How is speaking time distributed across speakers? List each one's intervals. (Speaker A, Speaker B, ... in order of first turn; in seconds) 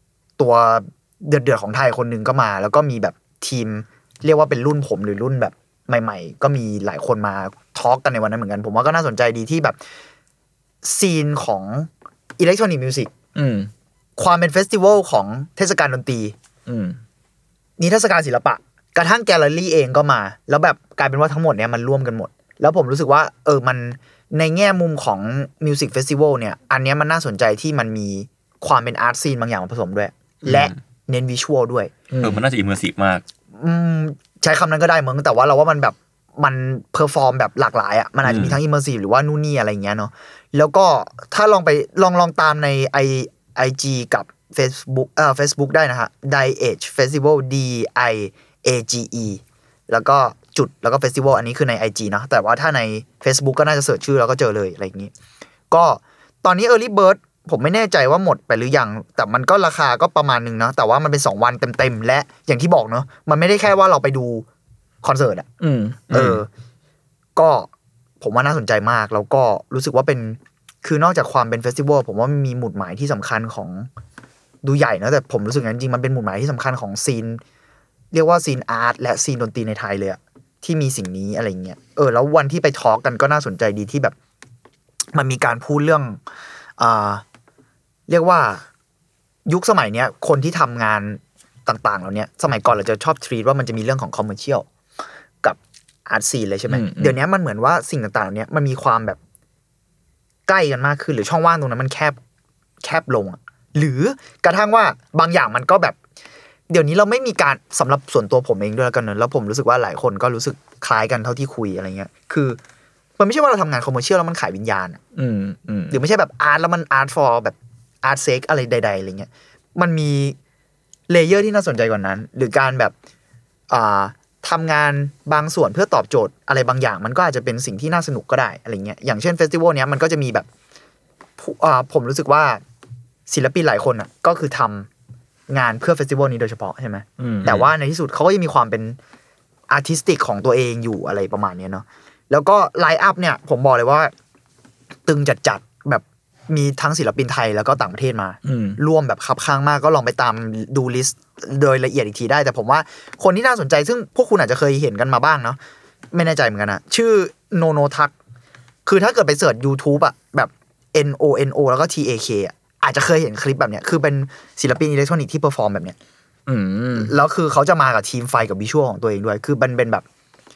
Speaker A: 0.4-9.8, 10.8-13.1, 14.2-16.4, 17.8-31.9, 33.6-55.1, 55.7-64.5, 65.0-65.5, 66.1-66.5, 67.4-67.7, 68.2-73.9, 74.6-77.4, 78.1-84.2, 85.1-86.2, 86.8-87.2, 88.1-88.7, 89.5-94.7, 95.4-99.2, 100.5-102.2, 102.8-106.0, 106.7-112.6, 113.2-115.0, 115.9-120.4, 121.1-122.9, 123.7-130.5, 131.4-132.6, 133.3-134.9, 135.5-139.0, 139.7-144.1, 145.1-155.6, 156.1-158.1, 158.9-166.0, 166.9-170.1
Speaker B: 13.3-13.7, 16.7-17.0, 32.1-32.4, 65.6-66.0, 96.7-97.2, 115.2-116.0, 137.2-137.6, 148.4-148.8, 166.5-167.1
Speaker C: 30.4-30.8, 32.2-33.2, 38.3-38.6, 66.1-66.4